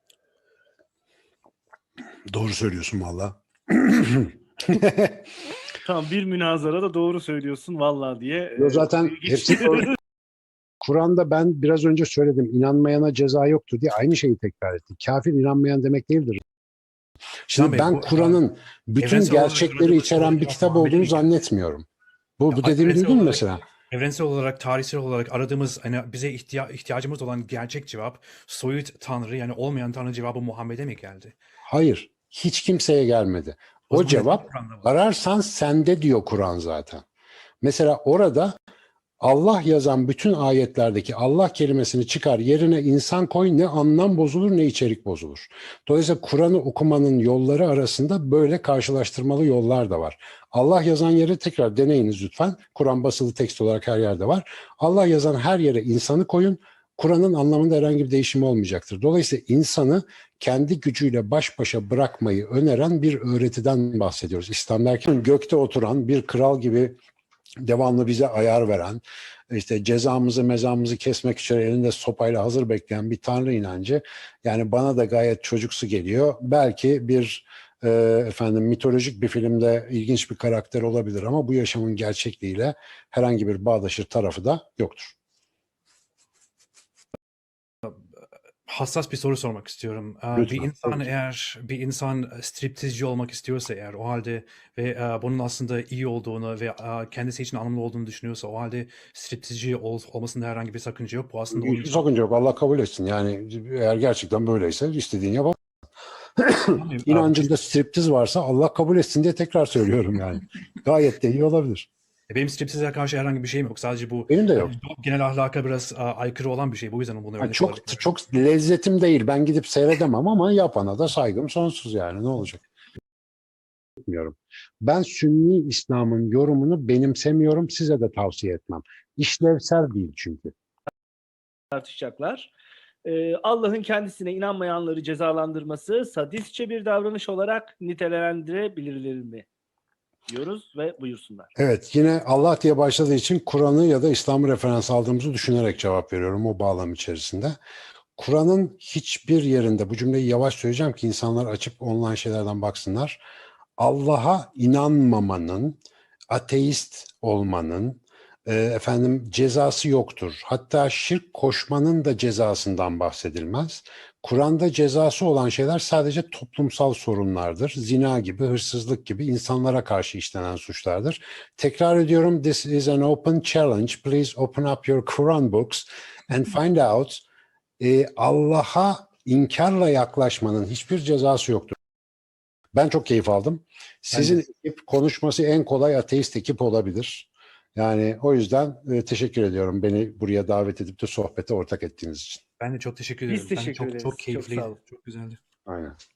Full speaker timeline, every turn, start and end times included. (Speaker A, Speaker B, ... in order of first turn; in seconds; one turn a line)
Speaker A: 2.3-5.2
Speaker B: 5.8-9.9
Speaker A: 8.6-9.9
Speaker A: 10.8-16.4
Speaker A: 17.5-21.9
Speaker C: 17.5-18.4
Speaker C: 19.0-21.3
Speaker A: 22.4-23.6
Speaker C: 22.5-31.3
Speaker A: 31.6-37.0
Speaker C: 33.9-34.9
Speaker A: 37.6-38.5
Speaker A: 39.2-67.0
Speaker A: 67.6-85.1
Speaker C: 88.7-102.1
Speaker A: 90.3-91.1
Speaker A: 101.5-105.6
Speaker A: 106.4-111.9
Speaker C: 106.7-107.5
Speaker C: 112.3-118.0
Speaker A: 114.3-114.7
Speaker A: 117.4-122.6
Speaker A: 124.0-130.5
Speaker B: 131.7-132.5
Speaker B: 133.0-139.4
Speaker B: 140.3-141.5
Speaker A: 141.6-147.6
Speaker A: 148.2-153.2
Speaker A: 153.8-155.8
Speaker A: 156.3-177.2
Speaker A: 177.8-181.7
Speaker A: 182.7-192.4
Speaker C: 184.1-184.4
Speaker C: 192.6-195.4
Speaker B: 193.3-194.7
Speaker A: 195.7-196.0